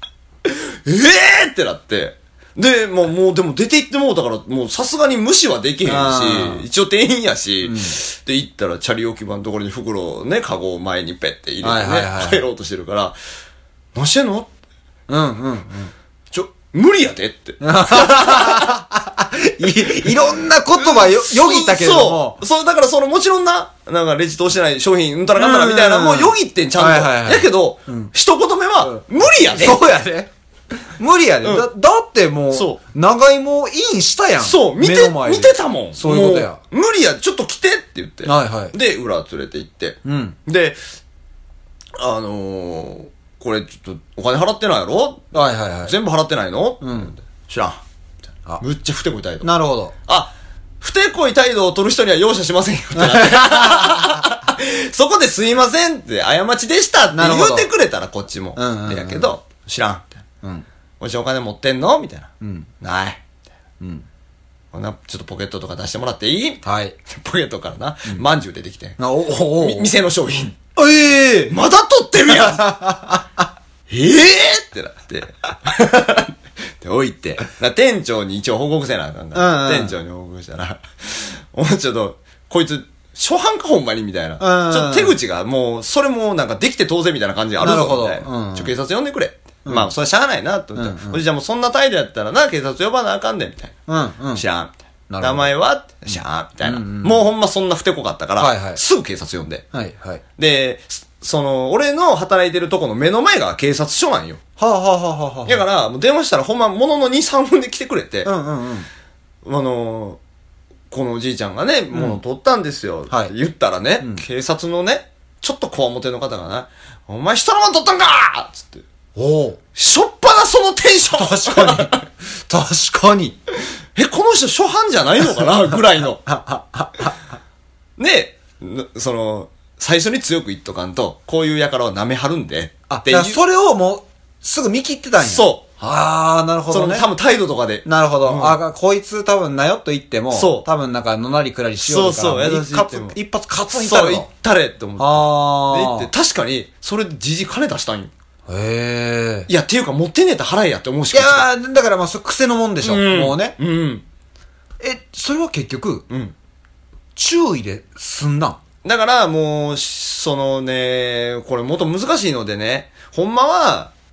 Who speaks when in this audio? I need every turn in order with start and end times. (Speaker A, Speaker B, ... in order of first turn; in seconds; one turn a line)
Speaker A: 0.4-13.2
Speaker B: 5.8-6.7
Speaker B: 7.6-8.0
Speaker B: 11.6-12.4
Speaker A: 13.9-14.5
Speaker B: 15.1-15.9
Speaker A: 16.3-18.8
Speaker B: 17.6-22.4
Speaker A: 19.9-29.8
Speaker B: 25.3-28.1
Speaker B: 28.8-30.3
Speaker B: 31.0-36.6
Speaker A: 31.4-31.7
Speaker A: 32.5-32.8
Speaker A: 34.4-40.8
Speaker B: 38.2-38.7
Speaker B: 40.0-40.4
Speaker A: 42.0-45.3
Speaker B: 45.3-46.0
Speaker A: 45.8-47.8
Speaker B: 46.8-47.1
Speaker A: 48.6-49.5
Speaker B: 49.4-49.9
Speaker A: 50.0-60.2
Speaker B: 53.0-54.2
Speaker B: 57.1-57.7
Speaker B: 58.5-59.3
Speaker A: 61.0-62.3
Speaker B: 62.4-62.7
Speaker A: 62.8-63.2
Speaker A: 64.7-69.0
Speaker B: 66.6-67.0
Speaker B: 69.0-69.9
Speaker A: 69.6-70.6
Speaker B: 70.8-71.5
Speaker A: 71.5-72.6
Speaker B: 72.3-73.4
Speaker A: 73.9-93.8
Speaker B: 79.3-79.9
Speaker B: 84.4-85.2
Speaker B: 87.6-88.7
Speaker B: 89.6-89.9
Speaker B: 90.8-91.2
Speaker B: 93.9-94.4
Speaker A: 94.3-99.6
Speaker B: 95.1-95.5
Speaker B: 96.6-97.2
Speaker B: 98.4-98.8
Speaker B: 99.7-100.2
Speaker A: 100.4-104.4
Speaker B: 104.6-105.6
Speaker A: 105.5-108.3
Speaker B: 108.2-108.9
Speaker A: 109.4-110.2
Speaker A: 110.9-118.8
Speaker B: 111.9-112.2
Speaker B: 119.2-119.6
Speaker A: 119.7-122.0
Speaker B: 121.2-123.4
Speaker A: 123.9-126.2
Speaker B: 126.2-127.1
Speaker A: 128.0-133.4
Speaker B: 132.9-137.1
Speaker A: 135.2-135.6
Speaker A: 136.7-138.6
Speaker B: 137.8-144.3
Speaker A: 140.3-140.7
Speaker A: 141.8-143.2
Speaker A: 143.7-148.1
Speaker B: 145.0-146.1
Speaker B: 148.5-149.5
Speaker A: 149.5-151.5
Speaker B: 151.1-153.6
Speaker A: 152.8-154.0
Speaker B: 154.8-156.1
Speaker B: 157.2-158.6
Speaker A: 158.8-163.9